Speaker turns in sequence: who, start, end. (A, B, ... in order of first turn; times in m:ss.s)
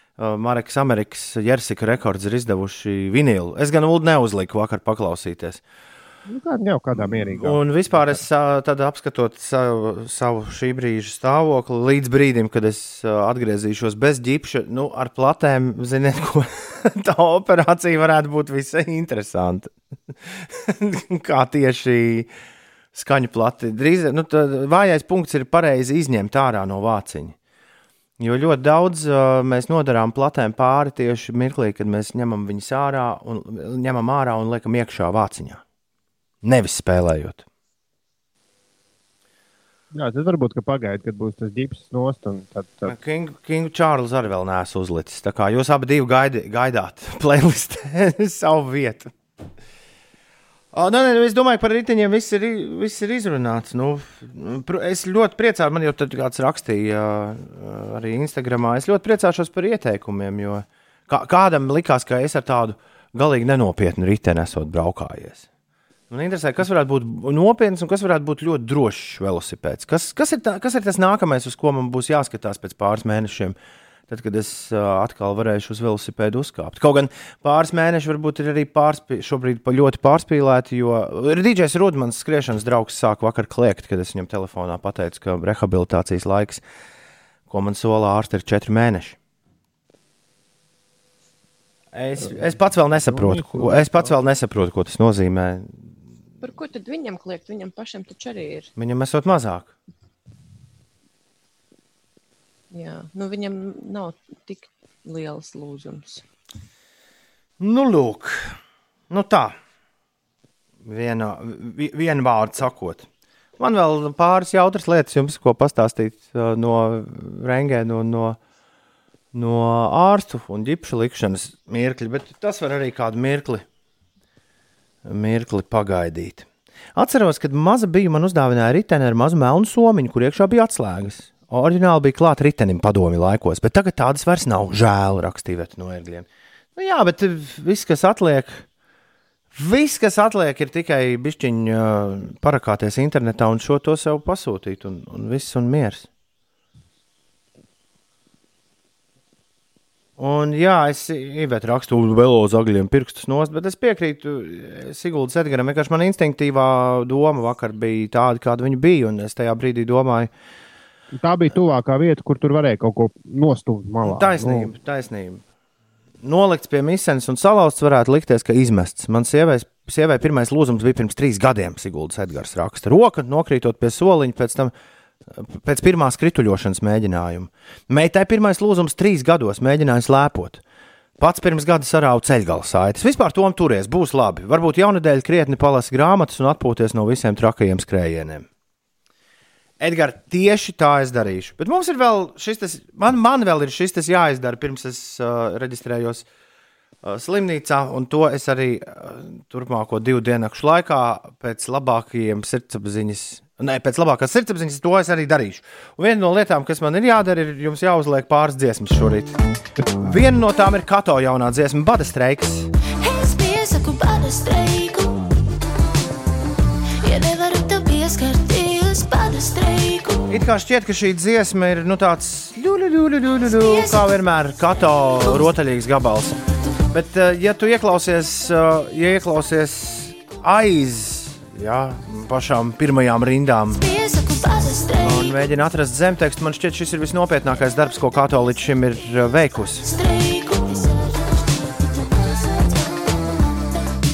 0:00.2-0:05.6 A
0:06.3-0:07.6 B
0:07.0-0:19.7 A
0:20.7-0:22.3 A
0:22.9-0:27.4 A
0:28.2-0:35.6 A
0:36.4-0:37.4 A
0:39.9-0:42.9 B
0:42.9-0:49.1 A
0:50.7-1:05.5 A
1:06.1-1:13.6 A
1:14.1-1:26.6 A
1:27.5-1:29.2 A
1:31.9-1:35.8 A
1:33.1-1:34.2 B
1:36.4-1:38.7 C
1:38.8-1:39.7 A
1:42.7-1:46.2 C
1:47.6-1:48.6 A
1:49.1-1:49.6 A
1:50.8-1:53.1 A
1:53.6-1:58.4 A
1:59.3-2:03.6 A
2:05.0-2:18.6 A
2:19.6-2:26.1 A
2:30.2-2:40.3 A
2:41.1-2:44.7 B
2:44.0-2:45.4 A
2:46.2-2:54.7 A
2:55.3-3:00.6 A
3:01.2-3:08.5 A
3:09.8-3:16.3 A
3:17.0-3:29.4 A
3:29.8-3:30.2 B
3:30.0-3:32.7 A
3:33.0-3:35.4 D
3:37.0-3:40.4 D
3:40.3-3:46.3 A
3:43.5-3:44.2 D
3:45.2-3:45.5 D
3:46.9-3:53.8 A
3:53.8-3:55.5 D
3:55.0-3:59.9 A
3:59.9-4:01.4 D
4:01.9-4:03.6 D